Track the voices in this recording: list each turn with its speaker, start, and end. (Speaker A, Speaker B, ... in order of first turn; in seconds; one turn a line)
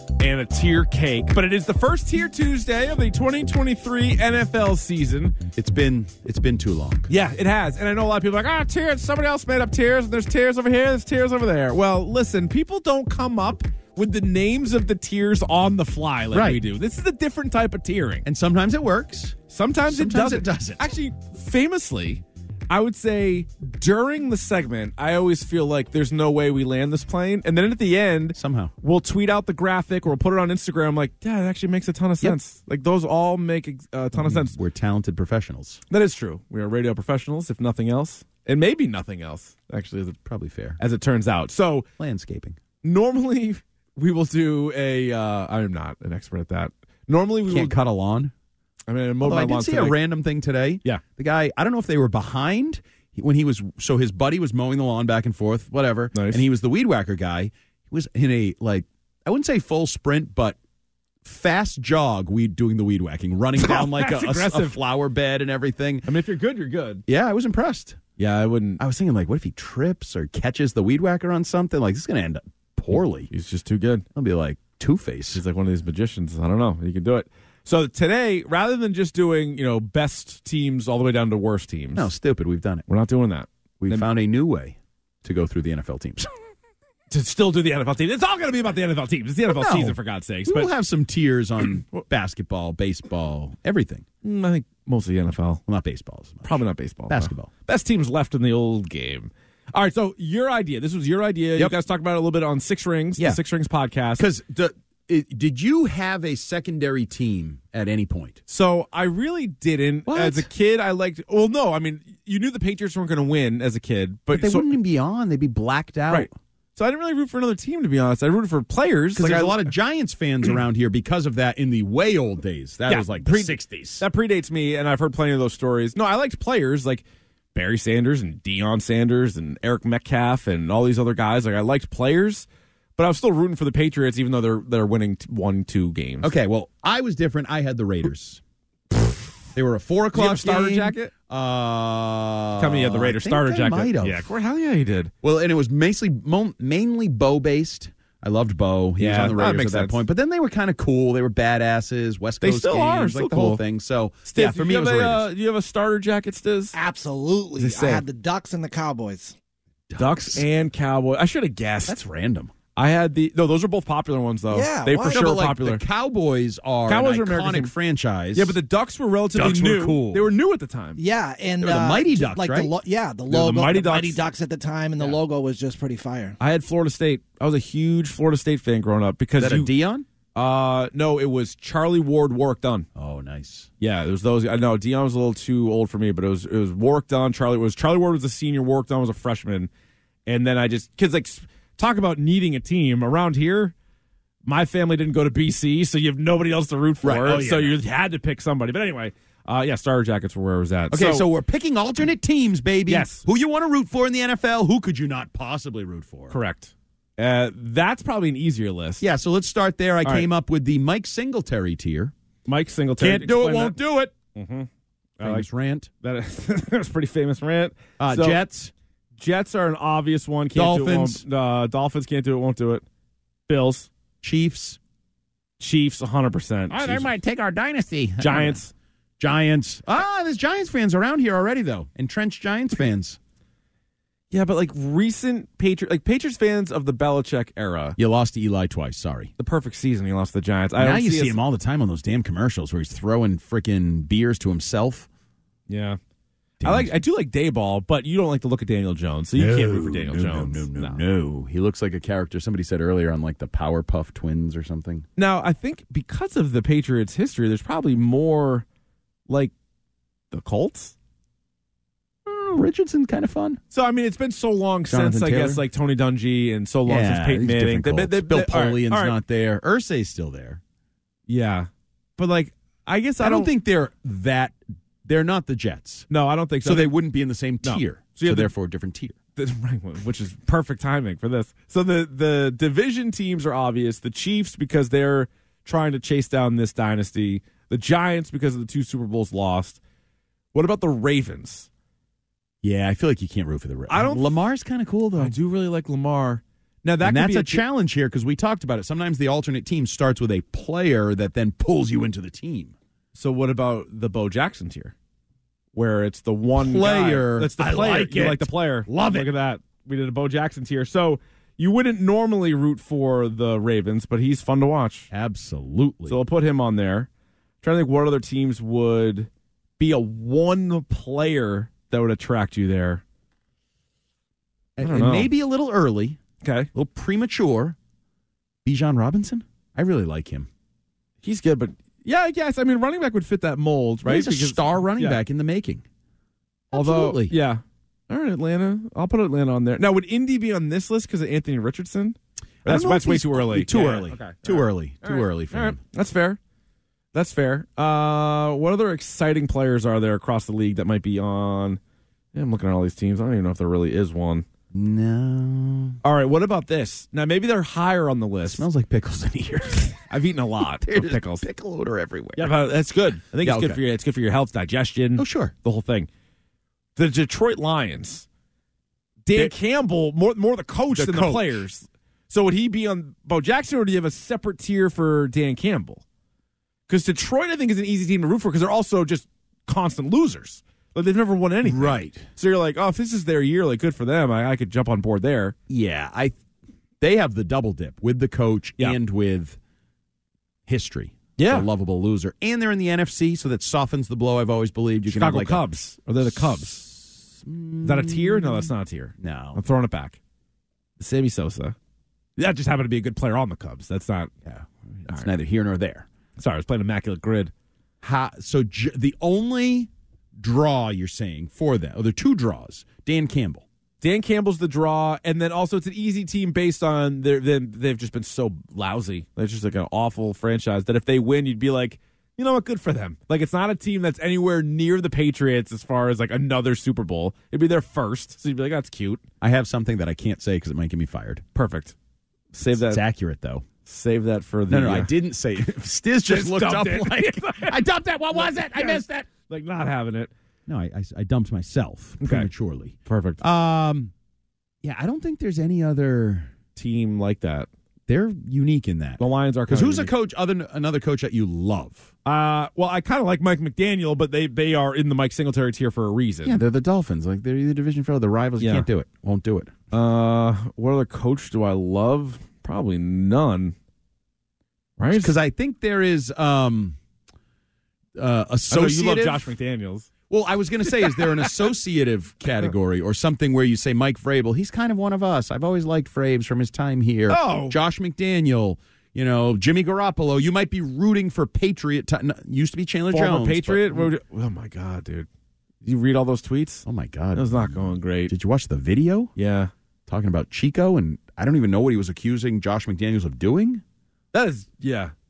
Speaker A: 0.2-5.4
Speaker B: 5.6-7.1
Speaker A: 7.1-18.2
Speaker B: 16.3-16.6
Speaker B: 18.2-20.8
Speaker A: 19.5-34.5
Speaker B: 28.4-28.7
Speaker B: 34.2-35.8
Speaker A: 35.9-40.2
Speaker B: 40.2-40.8
Speaker A: 40.8-41.9
Speaker B: 42.0-42.6
Speaker A: 42.8-47.8
Speaker B: 47.5-48.3
Speaker A: 48.9-50.0
Speaker B: 49.2-60.6
Speaker A: 56.1-56.4
Speaker B: 61.2-66.1
Speaker A: 63.6-64.8
Speaker A: 66.1-67.0
Speaker B: 67.1-68.0
Speaker A: 68.2-68.8
Speaker B: 68.8-73.3
Speaker A: 73.3-74.0
Speaker B: 74.1-75.4
Speaker A: 75.3-82.1
Speaker B: 82.0-82.8
Speaker A: 82.9-84.0
Speaker B: 83.8-86.3
Speaker A: 87.1-90.7
Speaker B: 89.5-94.1
Speaker A: 94.2-95.6
Speaker B: 95.7-97.5
Speaker A: 96.4-104.3
Speaker B: 104.2-108.4
Speaker A: 108.5-114.7
Speaker B: 110.1-110.5
Speaker B: 114.3-116.3
Speaker A: 116.1-119.7
Speaker B: 119.2-124.0
Speaker A: 122.9-127.0
Speaker A: 127.5-132.5
Speaker A: 133.0-136.3
Speaker B: 136.2-138.4
Speaker B: 139.6-144.3
Speaker A: 140.1-141.1
Speaker A: 142.6-145.1
Speaker B: 145.2-155.3
Speaker A: 149.0-150.0
Speaker A: 152.4-153.6
Speaker A: 154.2-156.8
Speaker C: 156.7-159.3
Speaker A: 157.6-158.0
Speaker B: 159.9-160.5
Speaker A: 160.0-162.0
Speaker B: 161.9-162.5
Speaker A: 162.8-165.8
Speaker C: 164.5-165.3
Speaker B: 165.1-168.6
Speaker A: 166.9-167.7
Speaker A: 168.3-171.0
Speaker B: 169.3-170.3
Speaker C: 171.0-176.4
Speaker B: 171.6-172.7
Speaker A: 173.3-174.2
Speaker A: 176.4-179.7
Speaker B: 179.4-180.1
Speaker A: 180.3-182.9
Speaker B: 182.9-183.7
Speaker A: 183.8-189.7
Speaker A: 190.3-193.7
Speaker A: 194.4-201.3
Speaker B: 197.0-197.8
Speaker B: 200.9-206.4
Speaker A: 202.9-203.2
Speaker A: 206.3-209.0
Speaker B: 209.0-212.1
Speaker A: 212.5-213.8
Speaker B: 213.0-214.1
Speaker A: 214.3-214.7
Speaker A: 215.2-215.5
Speaker B: 215.2-215.9
Speaker A: 216.0-218.4
Speaker B: 218.0-218.7
Speaker A: 219.2-222.8
Speaker B: 220.6-221.2
Speaker A: 223.5-223.9
Speaker B: 224.2-224.8
Speaker A: 225.6-227.1
Speaker B: 226.7-228.6
Speaker A: 228.2-228.7
Speaker B: 229.2-233.2
Speaker A: 234.3-238.0
Speaker B: 238.0-239.3
Speaker A: 239.4-241.4
Speaker B: 240.8-245.1
Speaker A: 245.7-246.0
Speaker B: 246.6-246.9
Speaker A: 246.6-251.0
Speaker B: 249.4-255.1
Speaker A: 255.2-258.6
Speaker A: 260.3-260.9
Speaker B: 262.3-263.6
Speaker A: 263.7-269.2
Speaker B: 264.9-265.6
Speaker B: 266.9-270.6
Speaker A: 271.3-273.5
Speaker B: 273.2-276.1
Speaker A: 276.1-276.9
Speaker B: 276.6-279.2
Speaker A: 277.6-278.5
Speaker A: 279.4-289.8
Speaker A: 290.5-291.7
Speaker B: 292.6-295.4
Speaker A: 293.9-294.4
Speaker A: 295.2-297.6
Speaker B: 297.0-302.7
Speaker A: 303.1-304.9
Speaker A: 305.7-315.1
Speaker B: 306.6-309.3
Speaker B: 315.1-316.2
Speaker A: 316.1-317.1
Speaker A: 317.6-323.0
Speaker B: 324.8-326.2
Speaker A: 324.8-325.3
Speaker A: 326.4-326.7
Speaker B: 326.7-327.8
Speaker B: 328.6-330.5
Speaker A: 331.2-335.2
Speaker B: 334.1-335.8
Speaker B: 336.7-337.4
Speaker A: 336.7-346.4
Speaker B: 342.6-345.8
Speaker A: 347.1-351.8
Speaker A: 352.4-354.5
Speaker B: 354.7-356.0
Speaker A: 356.0-358.7
Speaker B: 358.4-360.0
Speaker A: 360.1-361.5
Speaker B: 360.8-362.6
Speaker A: 362.4-366.1
Speaker B: 363.3-363.8
Speaker B: 365.2-365.5
Speaker A: 367.0-368.3
Speaker A: 369.3-376.0
Speaker B: 370.9-371.6
Speaker A: 376.9-385.6
Speaker B: 381.6-382.3
Speaker B: 385.7-386.4
Speaker B: 387.0-389.6
Speaker B: 390.7-395.6
Speaker A: 391.4-391.7
Speaker A: 395.1-396.8
Speaker B: 396.3-399.6
Speaker A: 397.8-400.2
Speaker A: 401.0-401.8
Speaker A: 402.4-404.3
Speaker B: 404.4-406.1
Speaker A: 406.4-407.5
Speaker B: 408.0-413.6
Speaker A: 414.0-429.2
Speaker B: 429.4-431.4
Speaker A: 431.6-431.9
Speaker A: 432.5-433.0
Speaker B: 432.8-433.7
Speaker A: 433.9-435.1
Speaker B: 434.7-439.3
Speaker A: 436.3-437.8
Speaker A: 438.3-440.3
Speaker B: 440.7-444.1
Speaker A: 442.2-442.5
Speaker A: 443.1-443.4
Speaker B: 444.8-446.5
Speaker A: 446.8-447.7
Speaker B: 448.1-452.1
Speaker A: 449.2-450.1
Speaker A: 452.2-456.6
Speaker B: 456.4-459.8
Speaker A: 458.6-458.9
Speaker A: 459.9-463.8
Speaker A: 465.0-465.3
Speaker B: 465.1-467.0
Speaker B: 468.2-469.5
Speaker A: 468.7-470.1
Speaker B: 470.3-484.1
Speaker A: 470.9-471.5
Speaker A: 477.3-477.8
Speaker A: 483.1-485.3
Speaker A: 485.8-488.3
Speaker B: 486.9-489.3
Speaker A: 489.4-489.7
Speaker B: 490.1-493.8
Speaker A: 494.3-495.1